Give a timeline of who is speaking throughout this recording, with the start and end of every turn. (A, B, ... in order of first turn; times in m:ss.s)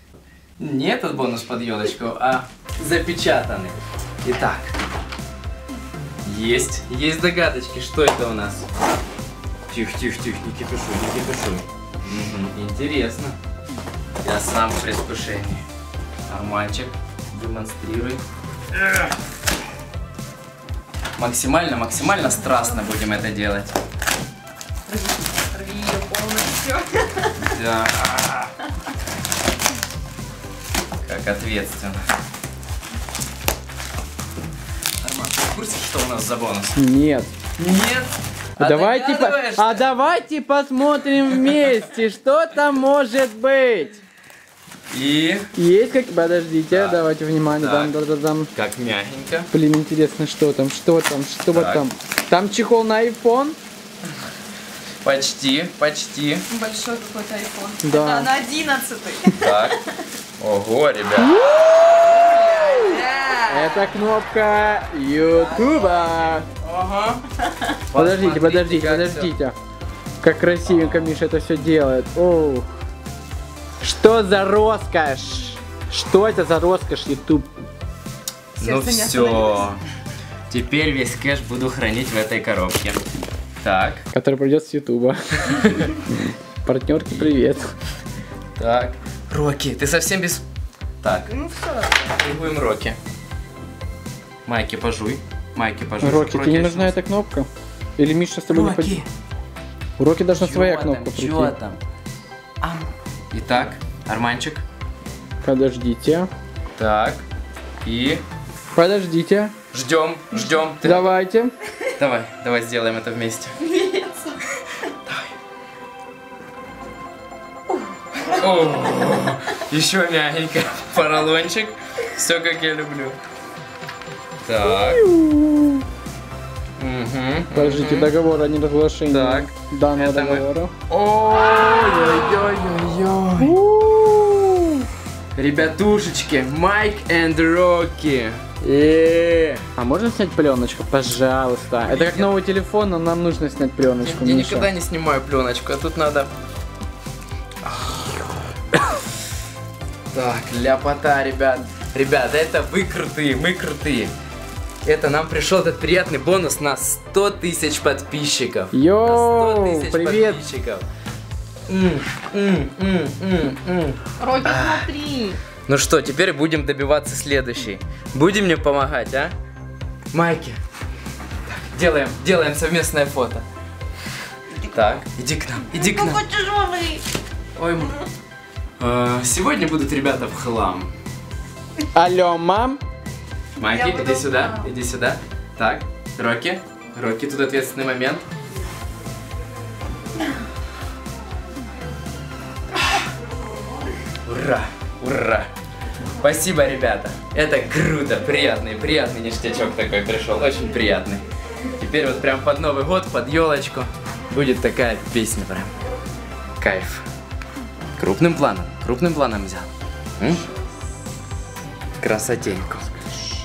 0:00.6-0:04.8 A
0:06.2-0:08.7 A
0:09.7-0:13.4 A
0:14.2-0:15.6 A
0:16.3-0:18.2 A
0:18.8-0:19.1 A
0:21.2-0:23.8 A
0:24.9-0:27.3 B
0:27.4-0:28.5 A
0:31.0-0:32.0 A
0:35.0-0:36.8 A
0:36.8-0:37.3 C
0:37.6-0:39.9 A
0:38.6-0:44.0 C
0:44.9-0:45.5 A
0:45.5-0:48.5 C
0:46.7-0:47.9 A
0:48.6-0:49.5 A
0:49.5-0:53.6 C
0:51.5-0:51.8 A
0:55.0-0:56.5 A
0:56.5-0:59.8 B
0:57.8-0:58.3 C
0:59.4-0:59.8 A
1:00.4-1:01.4 A
1:01.2-1:02.2 C
1:02.1-1:03.9 B
1:03.5-1:06.5 C
1:05.4-1:05.8 B
1:06.5-1:07.2 A
1:07.9-1:09.3 A
1:07.9-1:09.5 C
1:10.2-1:12.6 C
1:10.7-1:11.2 A
1:13.8-1:17.5 C
1:18.6-1:19.7 B
1:18.6-1:19.8 A
1:20.5-1:23.0 A
1:23.6-1:24.0 A
1:24.1-1:27.7 C
1:25.5-1:25.9 A
1:28.6-1:30.4 A
1:31.0-1:31.4 A
1:31.4-1:32.0 B
1:32.0-1:33.0 A
1:34.5-1:37.0 A
1:36.0-1:39.0 C
1:38.5-1:39.1 A
1:40.0-1:41.5 C
1:40.4-1:41.8 A
1:42.6-1:44.6 A
1:45.4-1:46.3 C
1:46.8-1:47.2 A
1:47.8-1:48.2 A
1:48.8-1:49.5 C
1:49.7-1:51.1 A
1:50.8-1:51.5 C
1:51.9-1:53.6 A
1:53.6-1:54.4 B
1:58.3-2:03.2 A
2:04.4-2:05.0 A
2:04.7-2:05.8 C
2:06.8-2:08.1 A
2:07.5-2:10.7 C
2:09.1-2:13.6 A
2:13.4-2:14.9 C
2:15.4-2:19.6 A
2:19.7-2:24.7 C
2:21.8-2:22.4 A
2:24.0-2:26.3 A
2:27.8-2:28.1 A
2:30.1-2:34.1 A
2:34.8-2:40.8 A
2:38.7-2:40.4 C
2:41.7-2:44.9 A
2:44.2-2:45.4 B
2:45.7-2:49.3 A
2:50.1-2:50.6 A
2:51.5-2:53.4 A
2:54.6-2:56.3 A
2:55.7-2:57.0 B
2:57.6-2:58.0 A
2:58.8-3:00.9 A
3:02.0-3:02.8 C
3:03.6-3:08.2 A
3:03.7-3:04.7 B
3:14.2-3:15.5 A
3:16.2-3:21.2 A
3:21.8-3:25.7 A
3:26.6-3:27.1 A
3:28.0-3:30.4 A
3:32.0-3:32.9 A